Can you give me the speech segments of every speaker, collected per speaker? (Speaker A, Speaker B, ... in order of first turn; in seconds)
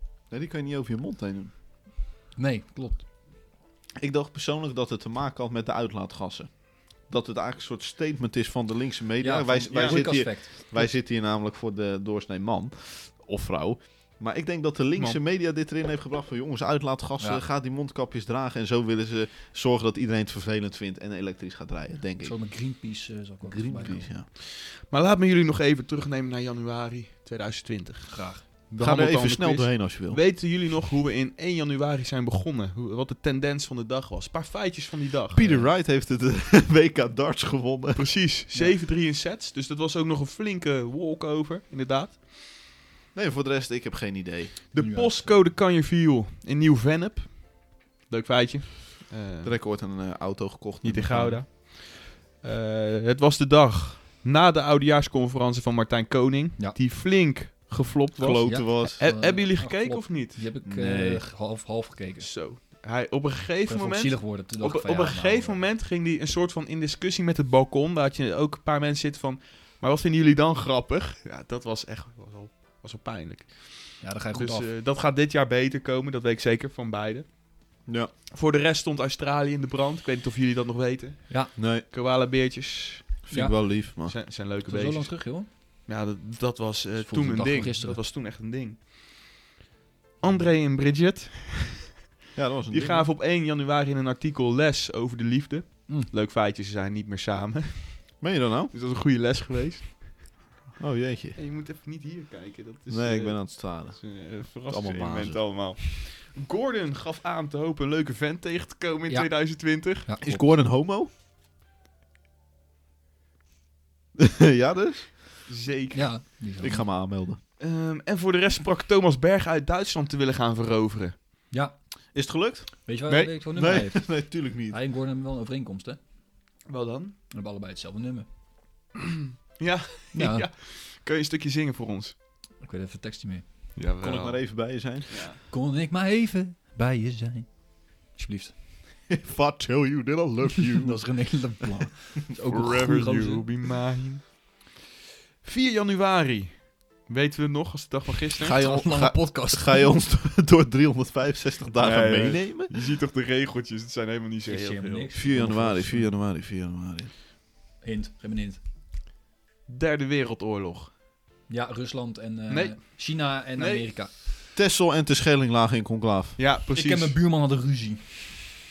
Speaker A: 0.3-1.5, 4.0-22.4, 23.4-24.3, 28.8-30.2, 35.3-38.2, 43.1-44.6, 49.4-51.4, 58.2-59.0, 60.6-61.3, 77.9-78.1, 81.6-81.8, 83.3-84.2, 92.3-93.1, 98.2-98.7, 100.8-101.4, 102.9-105.5, 110.2-111.1, 114.2-115.2, 116.6-117.4, 122.1-122.9, 123.5-124.8, 134.0-135.3, 139.1-141.8, 148.4-152.7, 155.1-157.1, 164.5-166.4
Speaker B: 2.4-3.1, 9.2-11.0, 22.2-24.1, 28.1-28.5, 35.4-35.7, 44.8-45.4, 58.4-62.4, 63.7-65.7, 74.0-74.7, 81.3-81.5, 83.3-85.5, 87.0-88.0, 109.1-110.6, 115.9-117.0, 122.9-126.0, 127.3-128.3, 130.1-130.5, 132.6-133.7, 135.5-138.6, 140.8-143.7, 148.6-149.9, 154.5-156.1, 157.8-158.6, 161.5-164.3, 166.7-168.3
Speaker C: 9.7-10.2, 24.4-35.5, 38.0-42.2, 44.7-49.5, 50.8-60.5, 62.2-77.4, 78.3-83.2, 84.0-88.8, 90.2-91.8, 92.7-100.2, 101.3-110.1, 115.5-116.2, 117.6-121.2, 126.7-127.2, 129.6-132.2, 133.8-135.4, 142.5-144.5, 145.4-148.6, 151.8-155.2, 159.7-160.9, 162.5-163.0, 163.6-163.9, 166.4-167.2